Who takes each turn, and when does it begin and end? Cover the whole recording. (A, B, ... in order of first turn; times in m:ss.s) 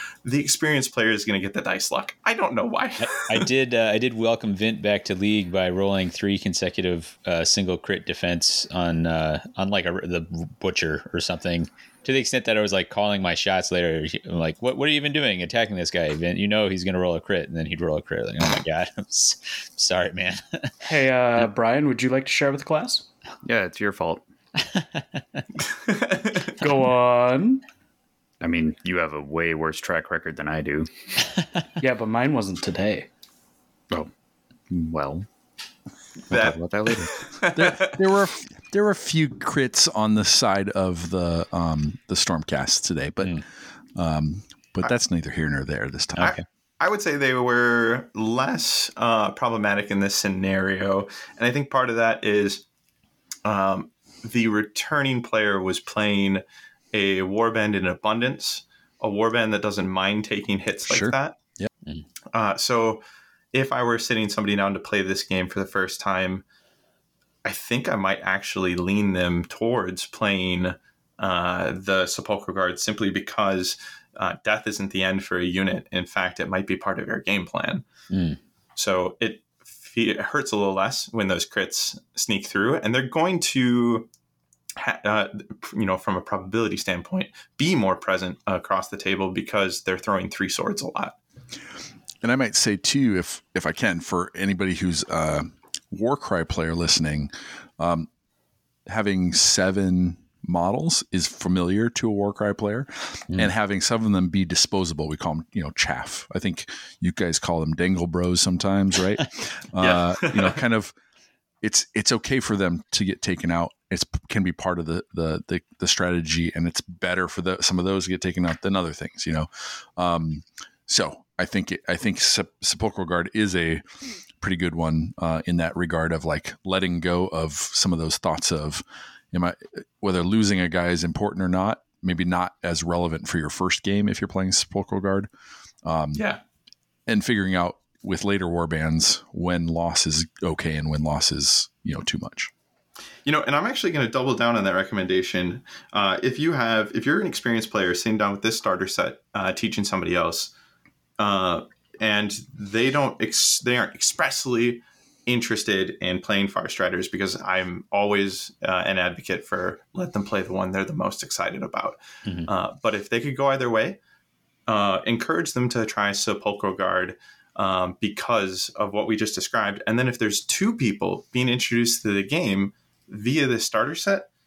0:00.2-0:03.5 A
0:03.0-0:20.7 B
0:20.9-0:23.1 C
0:23.4-0:24.2 D
0:24.6-0:25.4 B
0:25.9-0:26.5 A
0:26.6-0:27.6 C
0:28.4-0:30.9 D
0:31.8-0:33.1 C
0:34.7-0:35.3 D
0:36.3-0:37.1 D
0:36.3-0:38.0 A
0:37.6-0:43.4 E
0:44.0-0:46.4 E
0:46.2-0:46.4 B
0:46.2-0:52.6 A
0:53.5-1:01.4 A
1:00.9-1:01.7 E
1:02.3-1:03.0 A
1:03.5-1:06.4 A
1:07.4-1:17.8 A
1:18.1-1:18.4 B
1:18.8-1:24.1 A
1:24.8-1:31.2 A
1:32.2-1:38.1 E
1:38.9-1:50.9 E
1:49.8-1:50.6 A
1:51.6-2:03.8 E
2:04.4-2:15.3 E
2:15.8-2:16.2 E
2:16.2-2:16.4 A
2:17.1-2:22.5 E
2:23.3-2:30.5 A
2:31.2-2:44.0 A
2:44.7-2:54.3 A